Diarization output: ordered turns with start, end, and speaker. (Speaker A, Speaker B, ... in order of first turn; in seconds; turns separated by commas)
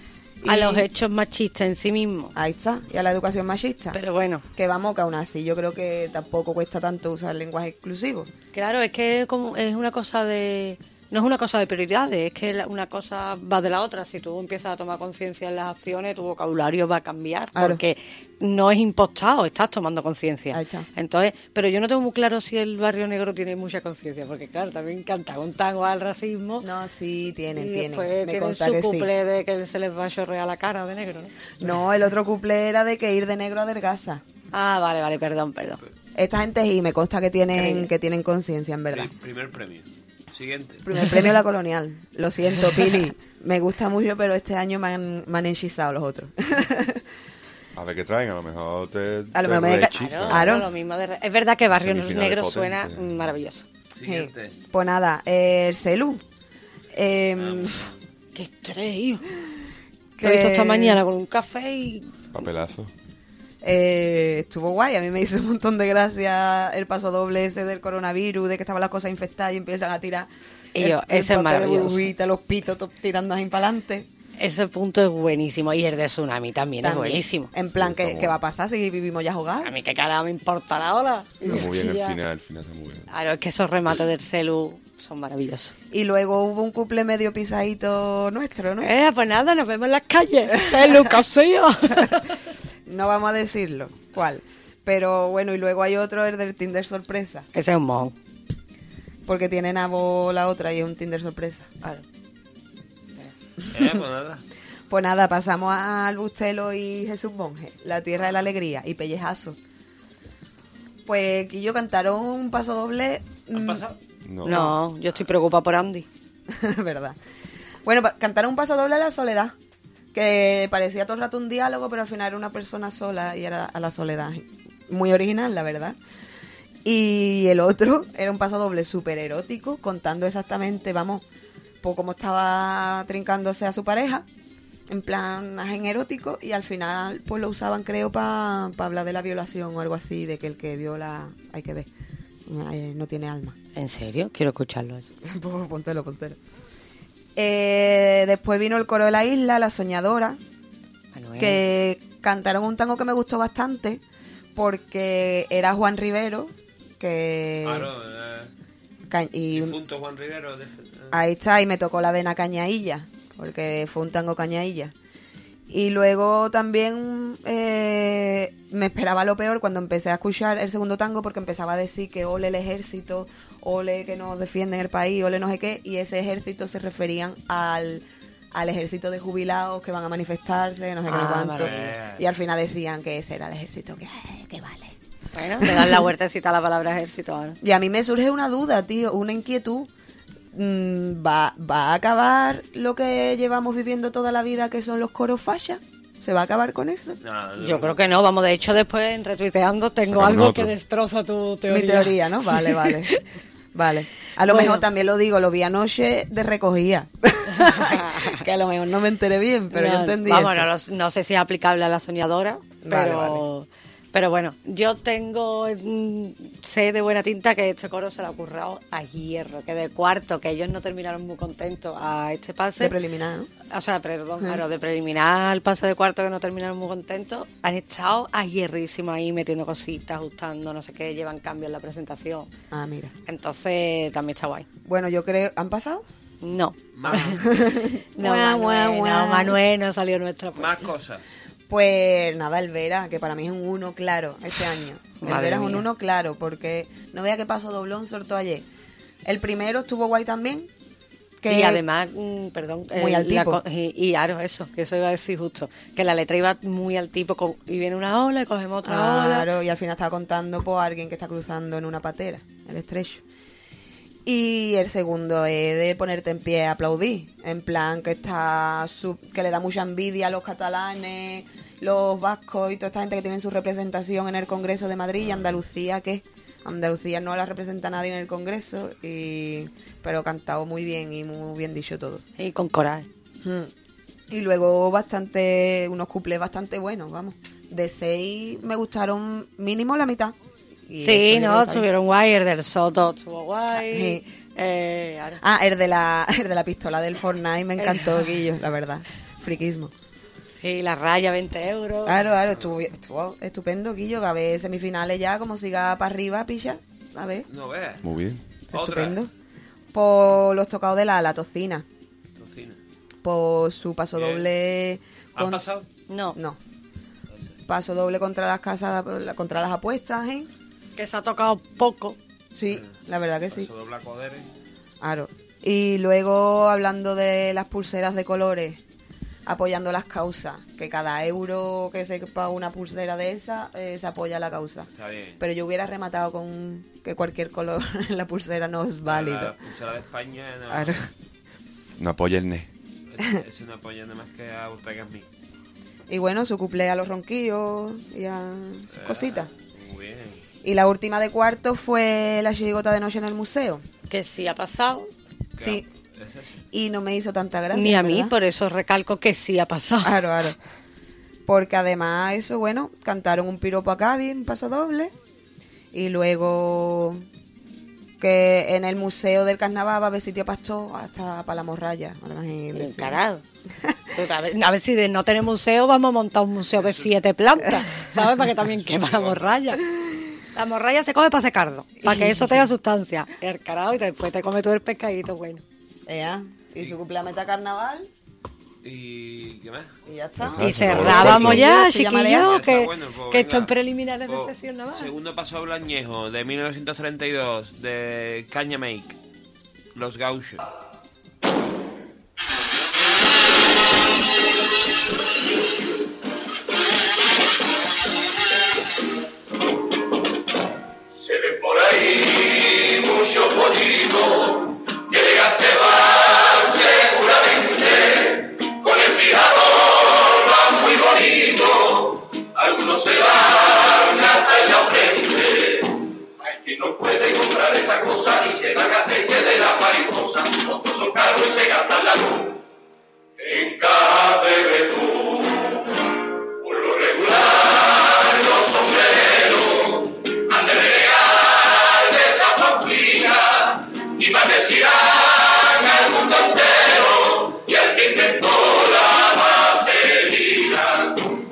Speaker A: 0.4-0.9, Speaker B: 0.5-2.3, Speaker A: 2.3-4.0, Speaker B: 3.9-4.4, Speaker A: 4.5-8.3, Speaker B: 8.5-26.7, Speaker A: 17.5-17.8, Speaker A: 20.5-20.9, Speaker A: 26.6-29.1, Speaker B: 27.6-31.3, Speaker A: 31.6-34.2, Speaker B: 34.5-35.8, Speaker A: 36.1-39.1, Speaker B: 37.5-37.9, Speaker C: 38.9-40.8, Speaker A: 40.8-47.0, Speaker D: 47.7-50.6, Speaker A: 49.3-50.6, Speaker B: 49.9-53.6, Speaker D: 51.7-53.3, Speaker C: 53.9-54.5, Speaker A: 54.0-56.2, Speaker A: 56.9-57.8, Speaker C: 57.4-58.0, Speaker B: 58.3-59.2, Speaker A: 60.2-61.0, Speaker B: 60.2-62.1, Speaker D: 62.3-62.9, Speaker A: 63.6-74.1, Speaker B: 70.7-72.1, Speaker B: 74.4-77.5, Speaker A: 76.8-79.7, Speaker D: 77.7-78.4, Speaker B: 79.6-82.2, Speaker D: 81.5-83.1, Speaker B: 83.1-85.7, Speaker A: 85.9-88.9, Speaker B: 88.8-92.3, Speaker A: 90.7-91.0, Speaker A: 92.8-97.5, Speaker B: 97.5-98.1, Speaker A: 99.2-101.7, Speaker C: 103.7-104.4, Speaker A: 104.9-109.6, Speaker A: 111.1-113.8, Speaker C: 113.5-114.0, Speaker D: 114.2-114.8, Speaker B: 114.5-116.0, Speaker A: 116.5-117.2, Speaker A: 117.8-119.5, Speaker A: 120.1-126.0, Speaker A: 126.8-131.2, Speaker A: 131.8-134.2, Speaker A: 134.9-141.9, Speaker A: 142.5-143.6, Speaker B: 143.7-145.1, Speaker A: 145.2-146.4, Speaker A: 147.3-150.4, Speaker B: 151.1-151.6, Speaker A: 151.4-154.0, Speaker A: 154.5-157.9, Speaker C: 157.6-158.5, Speaker A: 159.1-159.7, Speaker C: 159.5-161.2, Speaker A: 161.1-164.9, Speaker A: 165.7-178.0, Speaker A: 178.5-184.9, Speaker B: 181.1-181.9, Speaker C: 181.6-182.2, Speaker B: 185.3-187.6, Speaker A: 185.6-186.0, Speaker A: 187.6-189.9, Speaker A: 190.5-197.2, Speaker C: 197.2-198.0, Speaker B: 197.6-203.2, Speaker D: 200.1-200.7, Speaker A: 201.7-203.1, Speaker A: 203.7-210.7, Speaker B: 204.4-204.8, Speaker B: 207.5-208.3, Speaker B: 209.7-222.9, Speaker A: 212.8-213.4, Speaker A: 222.8-223.5, Speaker B: 223.7-232.5, Speaker A: 232.7-233.1, Speaker B: 233.2-234.7, Speaker A: 234.8-236.0, Speaker B: 236.4-237.4, Speaker C: 236.9-237.5, Speaker A: 237.1-239.6, Speaker B: 238.2-240.9, Speaker C: 240.6-241.2, Speaker A: 241.7-248.7, Speaker B: 245.2-245.8, Speaker A: 249.2-250.7, Speaker A: 251.4-251.8, Speaker B: 251.5-259.5, Speaker A: 252.9-253.6, Speaker A: 258.8-263.2, Speaker A: 264.2-282.2, Speaker B: 282.4-283.1, Speaker A: 283.4-283.7, Speaker A: 284.3-290.3, Speaker A: 290.9-291.9, Speaker B: 291.0-295.4, Speaker A: 293.8-294.2, Speaker A: 295.4-299.9, Speaker B: 297.8-298.3, Speaker B: 300.6-302.2, Speaker A: 302.1-307.4, Speaker C: 307.5-308.0, Speaker D: 308.0-308.4, Speaker C: 308.7-309.2, Speaker A: 308.7-309.3, Speaker A: 309.9-311.9, Speaker C: 312.4-312.8, Speaker A: 313.2-315.6, Speaker C: 314.1-314.5, Speaker C: 315.4-315.9, Speaker B: 316.1-316.4, Speaker A: 317.7-320.5, Speaker B: 321.0-322.2, Speaker A: 322.5-323.7, Speaker C: 323.5-324.5, Speaker A: 325.0-328.8, Speaker A: 329.4-339.5, Speaker C: 334.9-335.4, Speaker C: 339.0-341.0, Speaker A: 340.7-341.1, Speaker D: 342.0-342.7, Speaker C: 343.1-345.3, Speaker A: 346.1-349.5, Speaker C: 348.9-350.4, Speaker A: 350.6-353.8, Speaker B: 354.1-355.1, Speaker C: 355.6-356.6, Speaker A: 355.6-355.8, Speaker A: 356.7-358.3, Speaker B: 357.7-360.1, Speaker A: 360.0-360.6, Speaker A: 361.5-365.1, Speaker A: 365.9-367.2, Speaker A: 368.2-373.2, Speaker B: 372.7-373.4, Speaker B: 374.1-379.8, Speaker C: 376.8-377.1, Speaker C: 378.8-379.5, Speaker B: 380.5-385.6, Speaker A: 382.0-382.7, Speaker A: 386.1-388.1, Speaker C: 388.8-389.9, Speaker A: 390.1-392.5, Speaker D: 390.4-391.7, Speaker B: 390.6-395.1, Speaker C: 392.4-393.7, Speaker C: 394.3-399.2, Speaker C: 399.9-400.6, Speaker E: 411.3-414.6, Speaker E: 415.1-418.2, Speaker E: 418.8-419.7, Speaker E: 420.3-425.8, Speaker E: 426.4-432.5, Speaker E: 433.5-435.0, Speaker E: 436.8-437.6, Speaker E: 438.3-439.6, Speaker E: 440.6-440.9, Speaker E: 442.4-443.2, Speaker E: 444.2-444.9, Speaker E: 445.6-450.2